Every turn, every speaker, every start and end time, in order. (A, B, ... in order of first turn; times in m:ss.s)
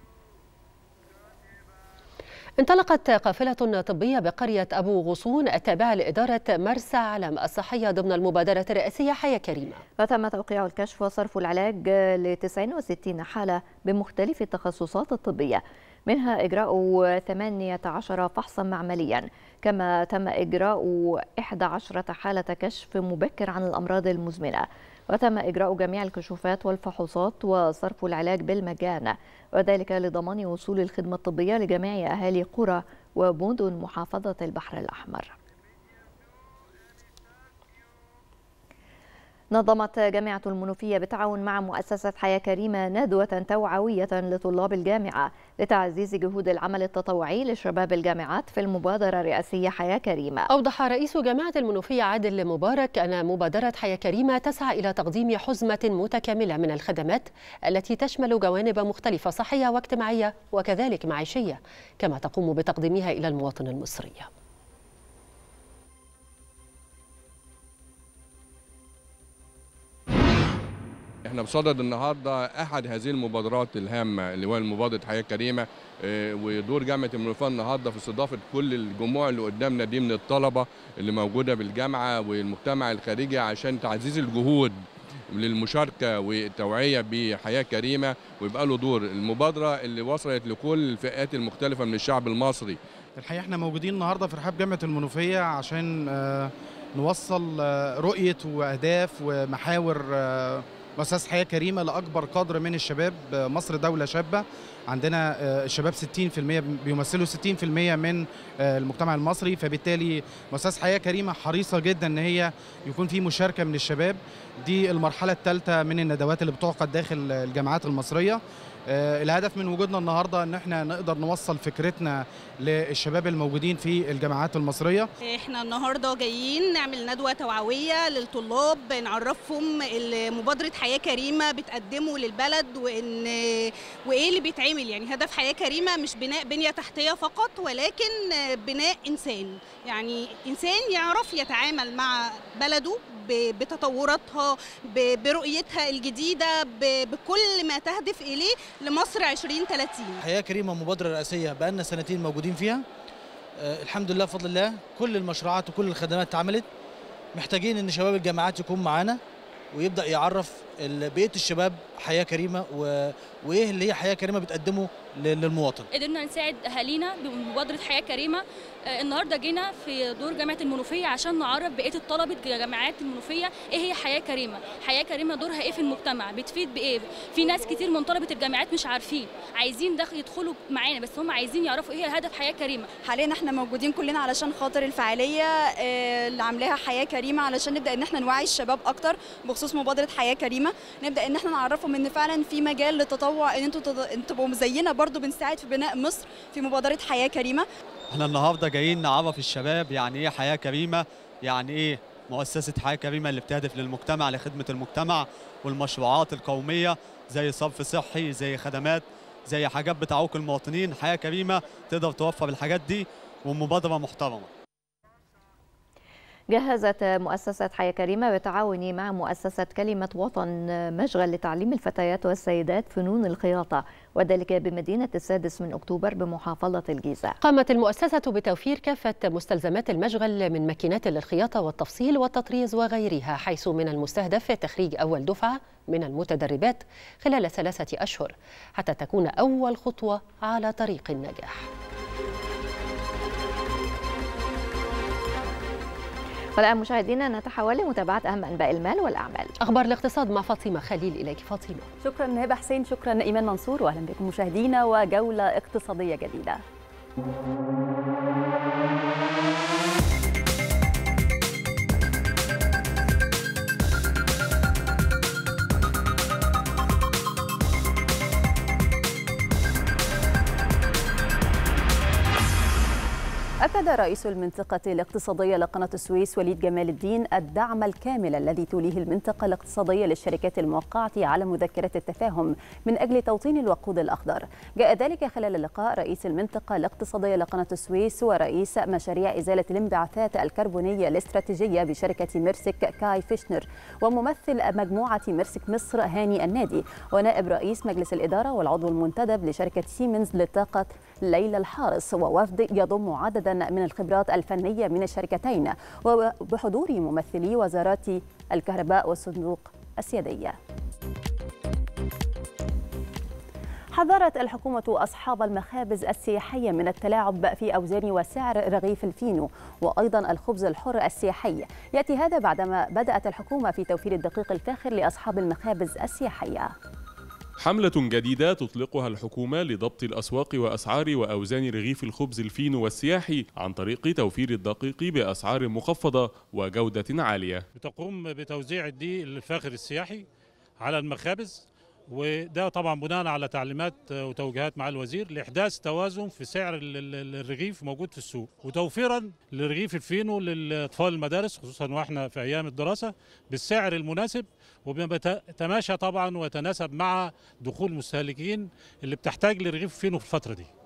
0:02.6-0:09.8 A
0:10.0-0:35.4 B
0:39.5-0:50.5 B
0:50.5-1:04.3 A
1:11.2-1:32.8 C
1:33.2-1:58.4 D
1:58.9-2:05.1 D
2:05.2-2:30.2 E
2:30.2-2:32.8 F
2:33.6-2:36.7 F
2:37.4-2:39.2 F
2:39.7-2:45.9 F
2:45.9-3:02.9 G
3:03.0-3:17.6 H
3:18.1-3:34.5 I
3:36.5-3:47.4 B
3:47.4-4:01.7 A
4:06.6-4:09.5 B
4:09.6-4:11.9 A
4:12.0-4:16.6 J
4:33.6-5:10.6 J
5:13.9-5:26.7 J
5:27.6-5:37.7 K
5:37.8-5:40.2 L
5:40.8-6:00.7 L